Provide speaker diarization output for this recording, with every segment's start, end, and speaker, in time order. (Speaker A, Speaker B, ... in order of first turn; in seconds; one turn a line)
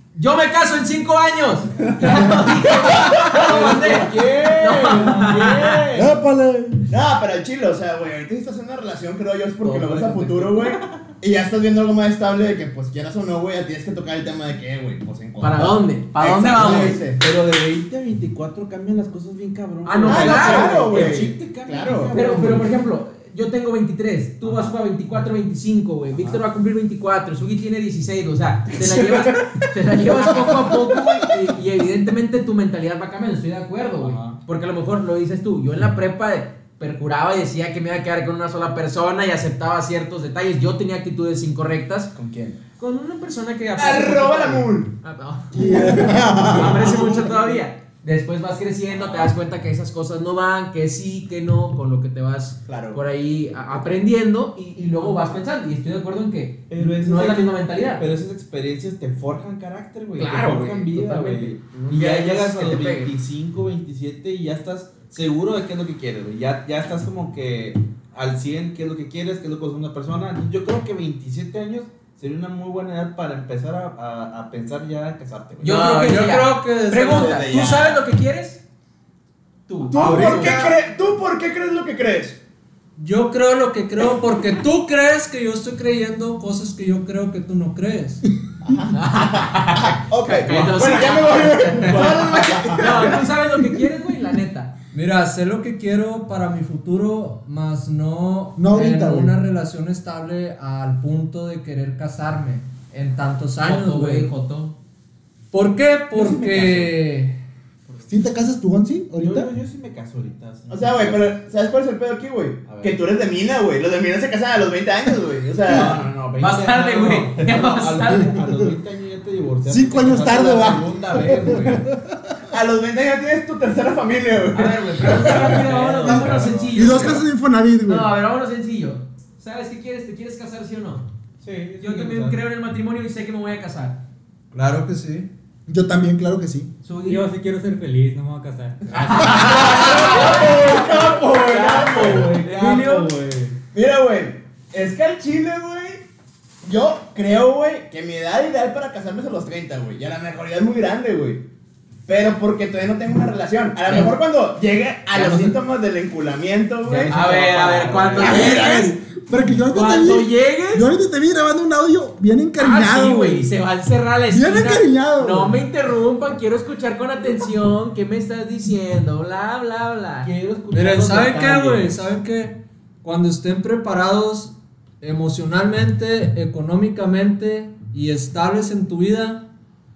Speaker A: 0.1-5.8
Speaker B: 2.1-2.4
Speaker B: 3.2-6.2
Speaker C: 3.6-3.9
Speaker D: 5.9-6.9
Speaker C: 6.9-17.2
Speaker B: 9.6-11.1
Speaker A: 15.4-17.0
Speaker B: 16.4-22.8
Speaker A: 19.9-21.1
Speaker C: 20.1-22.1
Speaker A: 22.1-42.1
Speaker B: 24.4-24.8
Speaker B: 26.1-26.4
Speaker C: 28.8-29.6
Speaker B: 34.0-34.4
Speaker B: 42.1-42.6
Speaker A: 42.8-58.0
Speaker C: 43.8-44.9
Speaker D: 45.5-47.2
Speaker C: 52.7-53.0
Speaker B: 56.7-75.8
Speaker A: 60.2-63.1
Speaker A: 75.6-78.6
Speaker E: 75.6-77.4
Speaker C: 77.1-78.0
Speaker A: 79.7-80.7
Speaker C: 79.9-82.4
Speaker E: 80.0-80.6
Speaker D: 80.0-80.5
Speaker E: 83.0-88.2
Speaker C: 88.7-93.2
Speaker A: 88.9-94.7
Speaker B: 90.5-92.8
Speaker D: 92.0-93.1
Speaker E: 94.9-104.3
Speaker D: 98.6-99.4
Speaker A: 103.6-104.8
Speaker E: 105.5-107.4
Speaker B: 106.2-106.9
Speaker D: 108.1-109.5
Speaker B: 109.2-111.3
Speaker C: 110.7-116.0
Speaker B: 112.6-113.0
Speaker B: 115.7-121.9
Speaker A: 116.4-118.4
Speaker D: 119.7-122.4
Speaker C: 122.5-125.6
Speaker A: 124.5-127.2
Speaker B: 124.6-127.1
Speaker D: 126.0-128.1
Speaker A: 127.9-131.1
Speaker B: 131.4-132.4
Speaker A: 131.8-134.0
Speaker E: 134.5-135.3
Speaker D: 135.7-136.7
Speaker A: 136.8-137.2
Speaker F: 137.1-139.6
Speaker A: 139.0-143.1
Speaker B: 139.4-143.6
Speaker C: 139.4-142.4
Speaker C: 143.7-146.0
Speaker C: 146.6-151.4
Speaker C: 152.1-158.6
Speaker B: 155.1-155.5
Speaker A: 156.9-159.0
Speaker B: 157.1-158.6
Speaker D: 158.2-163.5
Speaker A: 159.7-160.9
Speaker A: 162.6-170.3
Speaker D: 164.3-165.6
Speaker B: 170.2-171.9
Speaker E: 170.7-179.4